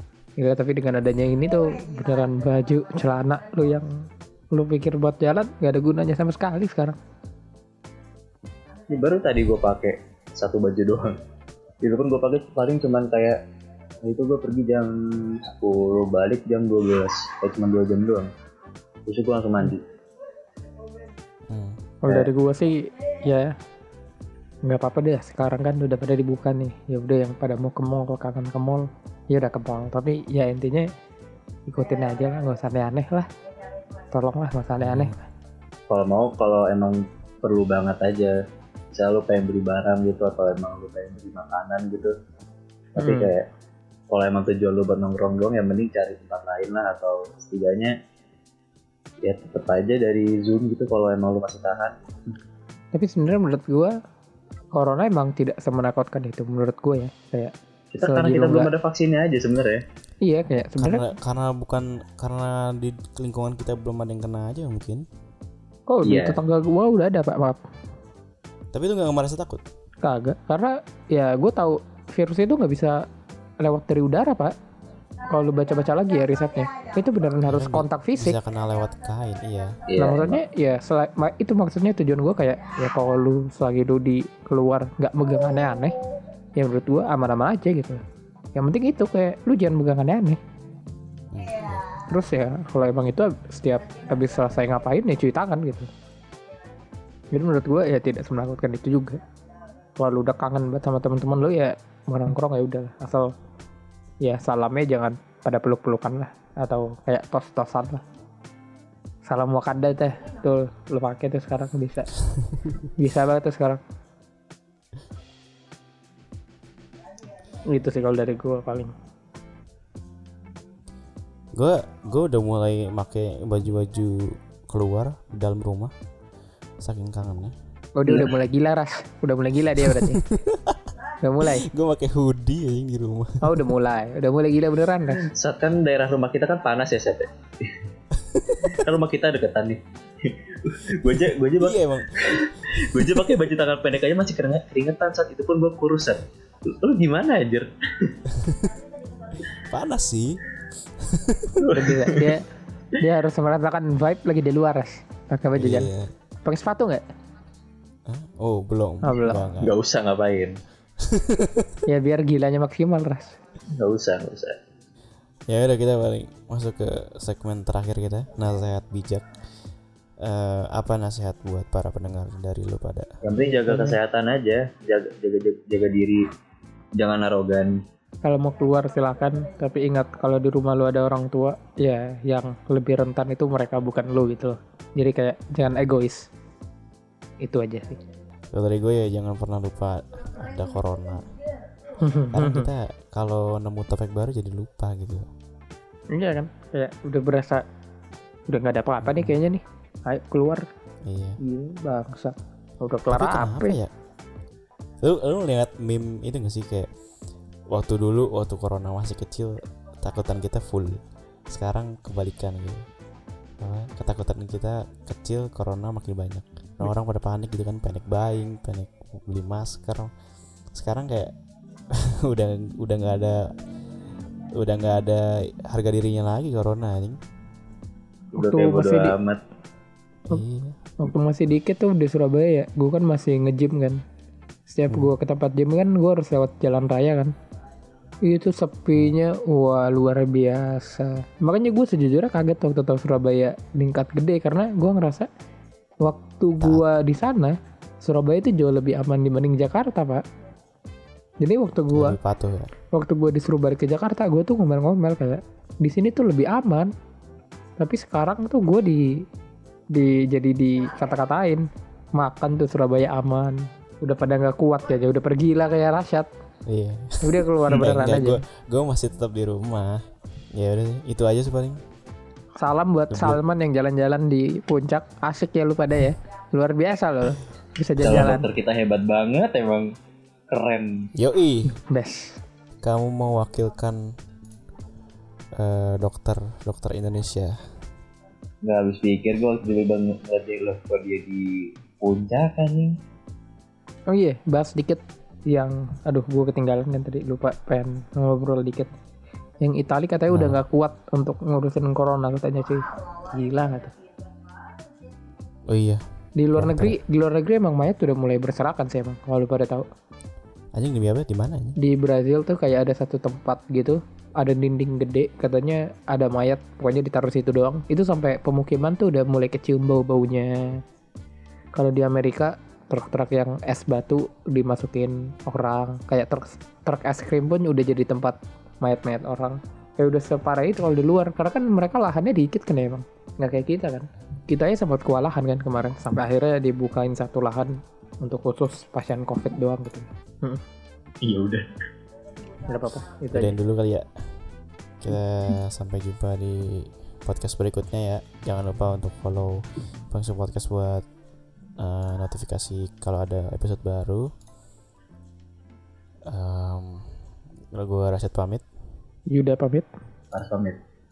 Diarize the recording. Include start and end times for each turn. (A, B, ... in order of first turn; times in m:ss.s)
0:00.4-0:07.0 A
0:08.9-0:11.2 B
0:11.8-0:13.4 B
0:14.0-0:18.3 B
0:19.1-0:19.8 B
0:21.5-0:21.8 C
0:22.0-0:23.5 A
0:24.6-0:30.9 A
0:31.7-0:33.3 A
0:34.1-0:35.2 A
0:34.8-0:35.1 C
0:35.9-0:38.4 B
0:38.9-0:42.1 B
0:42.9-0:43.5 B
0:43.0-0:43.3 A
0:44.1-0:47.9 B
0:49.2-0:52.0 B
0:52.9-0:54.0 A
0:54.7-0:58.7 A
0:57.9-0:59.8 B
1:00.2-1:01.1 A
1:00.8-1:05.0 C
1:05.9-1:07.6 A
1:06.0-1:06.4 B
1:08.7-1:09.6 C
1:10.0-1:13.0 A
1:13.6-1:14.5 A
1:15.2-1:18.4 A
1:17.5-1:19.8 C
1:19.9-1:20.4 B
1:20.0-1:26.0 A
1:26.6-1:28.0 A
1:28.5-1:30.4 A
1:31.3-1:31.9 C
1:32.0-1:35.9 A
1:37.3-1:39.2 A
1:40.0-1:43.3 A
1:44.2-1:48.0 A
1:49.2-1:52.1 A
1:53.0-1:53.8 A
1:57.7-1:58.9 A
2:01.5-2:05.9 C
2:06.8-2:07.5 C
2:08.0-2:10.2 A
2:08.1-2:08.3 B
2:09.8-2:10.8 C
2:11.2-2:11.7 A
2:11.4-2:13.7 C
2:13.4-2:15.2 A
2:15.1-2:17.8 B
2:18.1-2:18.8 C
2:18.7-2:28.1 B
2:21.6-2:23.3 C
2:28.3-2:28.7 C
2:29.4-2:30.4 C
2:31.0-2:31.6 C
2:31.6-2:32.4 B
2:31.7-2:32.4 A
2:33.0-2:35.9 A
2:35.5-2:36.1 C
2:36.4-2:37.0 A
2:38.1-2:39.7 C
2:39.0-2:39.6 A
2:39.6-2:40.6 B
2:41.0-2:41.8 C
2:41.9-2:43.4 A
2:43.7-2:44.6 B
2:45.5-2:49.3 C
2:50.2-2:53.1 C
2:53.2-2:56.3 B
2:53.4-2:54.0 A
2:57.0-2:57.8 B
2:58.2-3:06.3 A
3:07.4-3:08.0 A
3:08.5-3:11.3 C
3:12.0-3:12.7 A
3:12.3-3:15.3 C
3:16.1-3:17.6 A
3:18.5-3:20.6 A
3:19.0-3:19.4 C
3:21.0-3:21.4 C
3:21.4-3:23.8 A
3:23.1-3:23.9 C
3:25.0-3:26.9 C
3:27.7-3:32.8 C
3:33.6-3:40.1 C
3:40.7-3:41.3 C
3:41.9-3:43.5 C
3:44.5-3:47.2 C
3:48.4-3:49.1 A
3:48.4-3:49.4 B
3:50.3-3:50.8 C
3:51.0-3:54.0 A
3:54.7-3:57.3 A
3:58.2-4:05.3 A
4:06.0-4:10.2 A
4:11.4-4:12.2 A
4:11.9-4:12.7 C
4:12.9-4:16.9 A
4:17.8-4:19.2 A
4:19.9-4:26.3 A
4:26.6-4:31.8 C
4:27.2-4:28.4 A
4:32.6-4:38.5 A
4:33.1-4:33.4 C
4:38.0-4:39.9 B
4:40.5-4:41.1 B
4:41.1-4:41.8 C
4:41.7-4:42.4 A
4:42.8-4:44.1 C
4:45.6-4:47.6 C
4:48.6-4:53.0 B
4:54.1-4:58.9 A
4:59.6-5:03.9 A
5:00.3-5:00.6 C
5:05.7-5:06.0 C
5:06.4-5:09.9 A
5:06.5-5:07.0 C
5:10.7-5:11.8 C
5:11.8-5:20.8 A
5:21.8-5:40.6 A
5:41.2-5:41.7 B
5:42.6-5:43.6 A
5:43.3-5:44.3 C
5:45.0-5:51.0 C
5:51.8-5:54.3 C
5:56.3-5:57.2 C
5:57.7-5:58.6 C
5:59.3-5:59.9 A
6:00.3-6:00.8 B